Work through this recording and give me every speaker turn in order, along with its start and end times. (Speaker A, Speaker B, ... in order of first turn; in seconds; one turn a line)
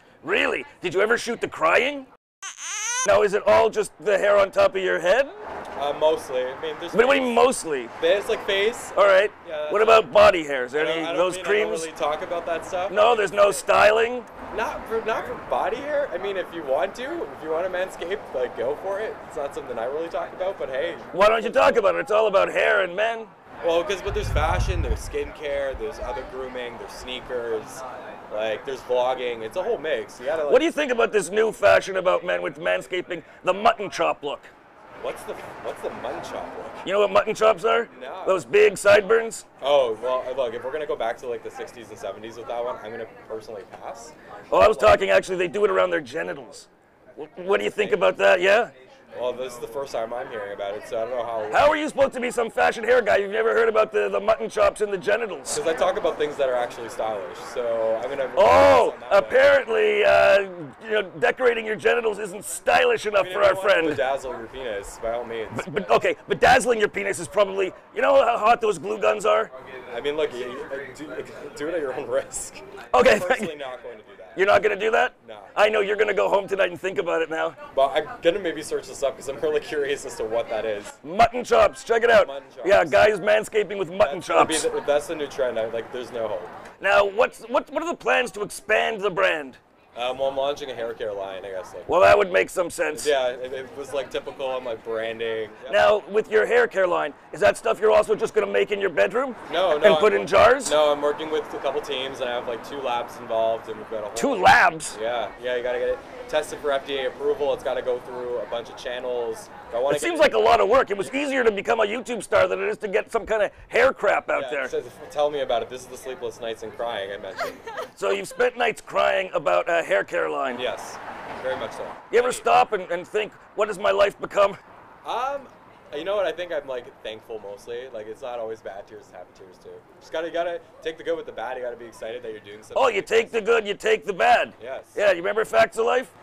Speaker A: 0.2-2.1
Speaker A: 3.0-5.4
Speaker B: 5.8-7.4
Speaker A: 6.9-7.9
Speaker B: 8.0-10.1
Speaker A: 8.9-11.9
Speaker B: 10.8-13.7
Speaker A: 12.9-14.3
Speaker B: 14.5-21.8
Speaker A: 21.1-23.3
Speaker B: 23.6-30.7
Speaker A: 30.5-34.5
Speaker B: 35.0-36.8
Speaker A: 36.8-39.5
Speaker B: 37.9-38.5
Speaker B: 39.6-45.0
Speaker A: 44.5-48.7
Speaker B: 47.5-48.2
Speaker B: 49.1-51.7
Speaker A: 51.5-55.6
Speaker B: 55.5-59.4
Speaker A: 58.4-64.0
Speaker B: 63.2-65.7
Speaker A: 65.5-69.5
Speaker B: 69.9-74.4
Speaker A: 72.9-73.6
Speaker A: 74.4-77.6
Speaker B: 75.2-75.5
Speaker B: 77.7-81.0
Speaker A: 81.0-84.7
Speaker B: 82.1-83.0
Speaker B: 84.0-86.5
Speaker A: 86.8-89.6
Speaker B: 90.0-91.9
Speaker A: 91.9-93.1
Speaker B: 92.9-95.9
Speaker A: 95.7-100.8
Speaker B: 99.5-110.5
Speaker A: 104.2-105.0
Speaker A: 109.9-114.7
Speaker B: 114.3-117.7
Speaker A: 118.0-120.6
Speaker B: 120.5-122.5
Speaker A: 122.1-124.6
Speaker B: 125.0-133.4
Speaker A: 132.8-136.1
Speaker B: 134.6-135.0